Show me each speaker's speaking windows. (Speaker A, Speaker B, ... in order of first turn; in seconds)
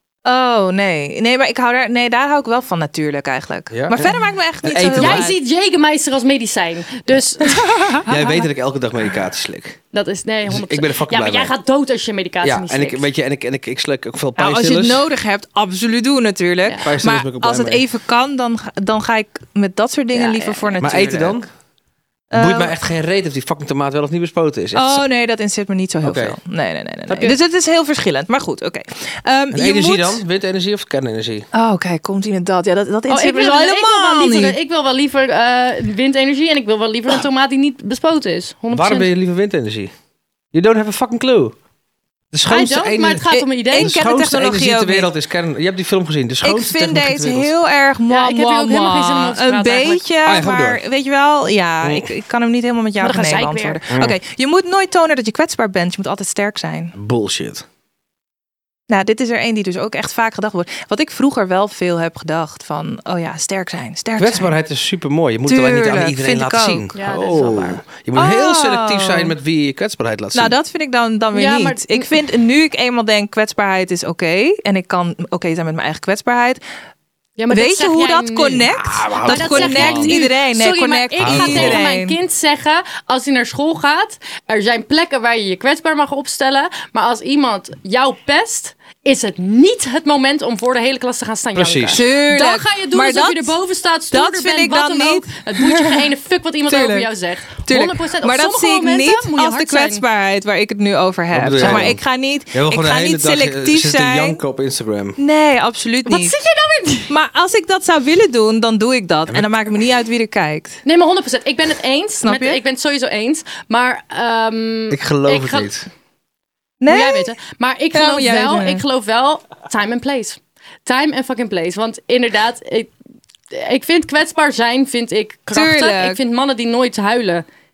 Speaker A: 0.2-5.3, 7.4-8.3, 14.4-21.4, 22.3-22.7, 24.7-30.2, 31.5-34.6, 43.3-45.1, 46.4-56.9, 58.9-64.5, 65.5-66.9, 68.2-69.3, 70.3-76.6, 77.5-82.2, 91.9-93.6, 94.1-96.1, 96.7-97.1, 97.7-104.4, 105.2-106.3, 107.1-110.8, 112.2-112.6, 116.8-117.3, 117.9-118.8, 125.5-126.2
Speaker B: 3.7-5.3, 8.1-9.8, 10.5-11.5, 12.4-15.0, 16.8-17.8, 20.8-21.5, 22.3-25.0, 26.0-26.4, 27.1-27.4, 29.5-31.4, 38.7-39.9, 40.5-41.5, 42.3-47.5, 50.2-50.8, 51.8-52.1, 57.0-57.6, 64.2-70.5, 78.7-80.2, 81.2-81.8, 91.5-92.0, 101.3-102.0, 102.5-105.2, 114.9-115.9
Speaker C: 4.9-8.0, 9.9-13.0, 20.1-20.7, 33.1-39.1, 42.5-43.9, 48.1-50.0, 53.0-53.8, 66.9-67.8, 71.3-72.1, 77.4-100.0, 106.0-107.1, 110.8-115.7, 116.8-122.9, 123.5-127.4